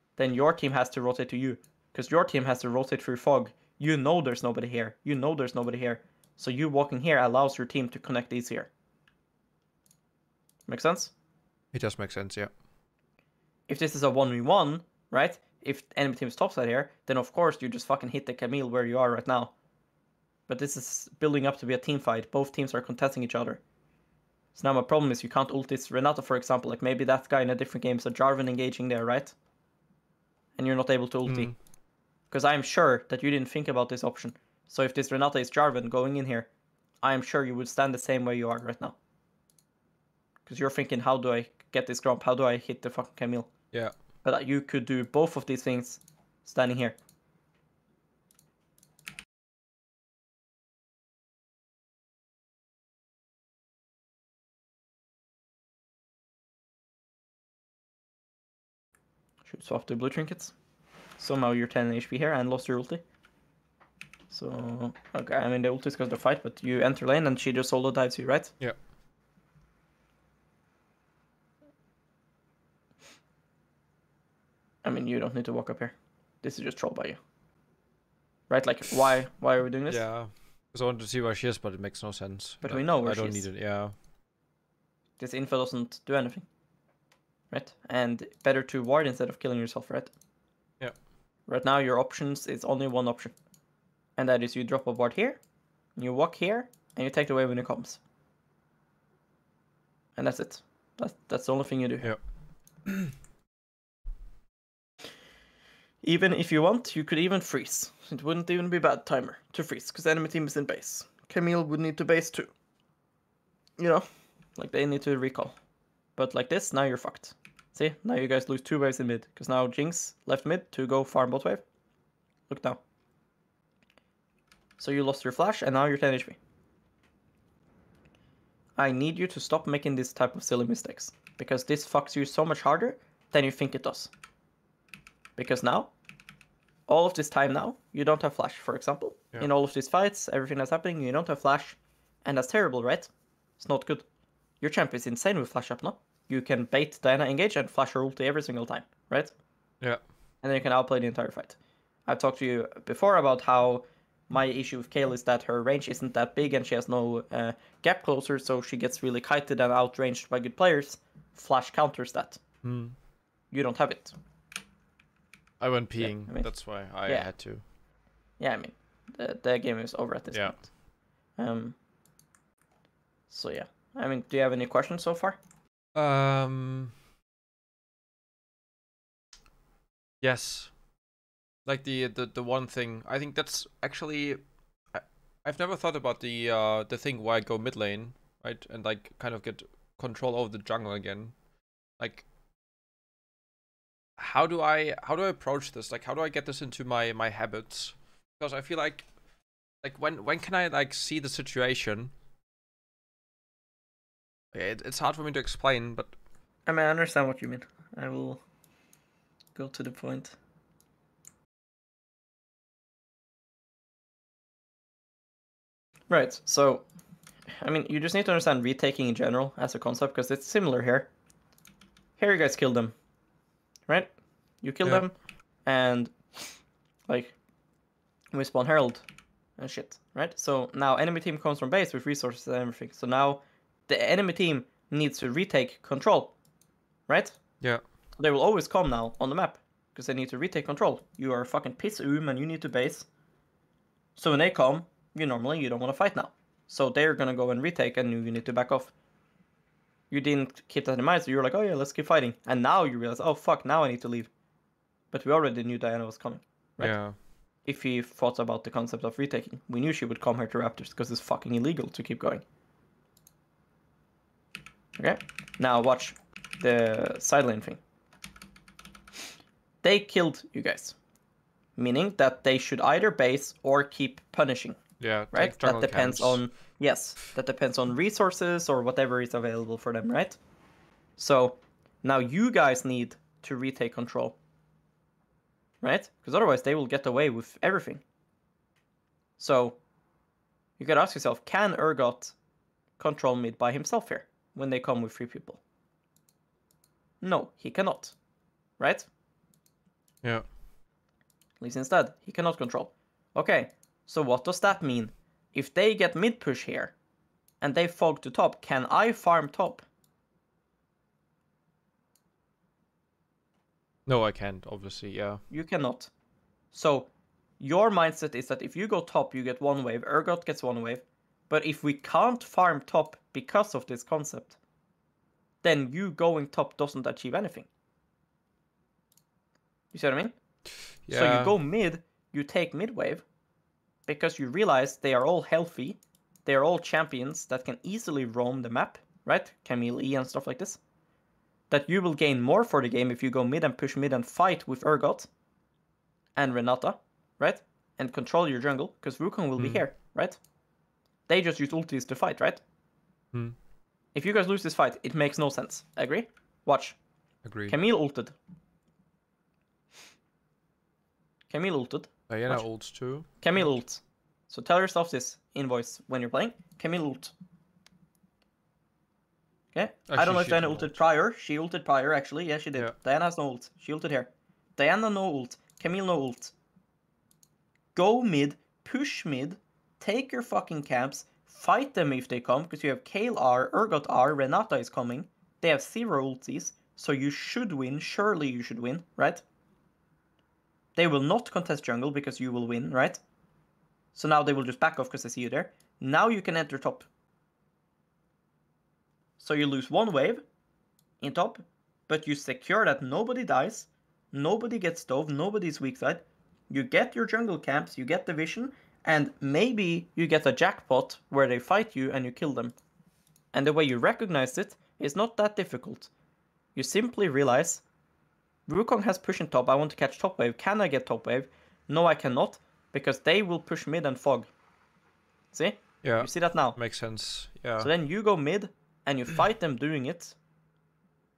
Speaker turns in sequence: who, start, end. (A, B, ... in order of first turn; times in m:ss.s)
0:00.2-0:08.7 A
0:10.7-0:11.1 A
0:11.7-0:12.5 B
0:13.7-0:19.5 A
0:20.5-0:23.6 A
0:24.6-0:29.4 A
0:30.6-0:31.5 A
0:31.3-0:31.5 B
0:32.3-0:36.5 A
0:37.0-0:39.0 A
0:40.5-0:43.5 A
0:44.2-0:47.0 A
0:59.4-1:00.5 A
1:01.2-1:03.0 A
1:04.3-1:08.5 A
1:14.8-1:17.2 A
1:18.5-1:20.0 A
1:19.9-1:23.9 B
1:22.6-1:23.4 A
1:25.2-1:26.5 A
1:27.5-1:30.1 A
1:31.5-1:33.4 A
1:34.2-1:35.4 A
1:36.0-1:38.0 A
1:40.2-1:42.1 A
1:46.0-1:52.5 A
1:53.8-1:55.6 A
1:56.2-2:01.6 A
2:02.5-2:02.8 A
2:04.8-2:06.4 A
2:08.8-2:14.1 A
2:15.4-2:15.9 A
2:16.9-2:24.1 A
2:24.6-2:29.3 A
2:30.4-2:42.4 A
2:42.6-2:43.0 B
2:43.5-2:44.2 A
2:45.6-2:47.6 B
2:46.0-2:46.5 A
2:47.0-2:47.3 A
2:48.4-2:50.6 A
2:50.3-2:50.6 B
2:51.4-2:51.8 A
2:53.3-2:55.4 A
2:56.0-2:56.9 B
3:00.2-3:00.7 B
3:01.7-3:04.4 B
3:04.9-3:11.4 B
3:12.0-3:12.3 B
3:14.2-3:19.1 B
3:19.8-3:22.1 B
3:24.5-3:26.1 B
3:26.7-3:28.4 A
3:29.6-3:30.4 A
3:36.1-3:36.8 A
3:37.6-3:41.1 A
3:42.2-3:42.9 A
3:44.6-3:45.1 A
3:45.7-3:47.4 A
3:48.3-3:49.1 A
3:49.6-3:56.3 A
3:57.1-3:57.4 A
3:58.2-4:03.1 A
4:04.2-4:08.9 A
4:10.1-4:14.3 A
4:15.1-4:17.0 A
4:16.8-4:17.2 B
4:17.7-4:22.4 A
4:25.0-4:27.8 A
4:29.8-4:31.0 A
4:31.8-4:34.8 A
4:35.0-4:36.4 B
4:35.3-4:40.4 A
4:41.2-4:44.4 A
4:45.8-4:48.0 A
4:49.4-4:49.8 A
4:50.8-4:52.4 A
4:53.0-4:55.6 A
4:57.2-4:58.2 A
4:58.8-4:59.1 A
5:01.6-5:06.9 A
5:07.6-5:09.9 A
5:14.1-5:15.4 B
5:15.5-5:16.1 A
5:16.7-5:24.6 A
5:25.6-5:27.7 A
5:29.9-5:30.4 A
5:31.1-5:31.6 B
5:31.1-5:33.2 A
5:34.1-5:40.8 A
5:41.7-5:45.3 A
5:46.4-5:50.4 A
5:49.6-5:49.8 B
5:51.3-5:52.6 A
5:54.1-5:57.0 A
5:57.4-5:57.8 B
5:57.7-5:58.4 A
6:01.5-6:02.6 A
6:02.3-6:03.8 B
6:03.4-6:07.3 A
6:09.7-6:16.5 A
6:10.1-6:11.0 B
6:18.0-6:29.4 A
6:31.0-6:33.2 A
6:34.1-6:37.1 A
6:39.4-6:40.4 A
6:41.2-6:52.8 A
6:53.5-6:56.1 A
6:56.8-6:57.8 A
6:58.7-7:04.5 A
7:05.5-7:06.8 A
7:06.0-7:07.9 B
7:07.8-7:10.4 A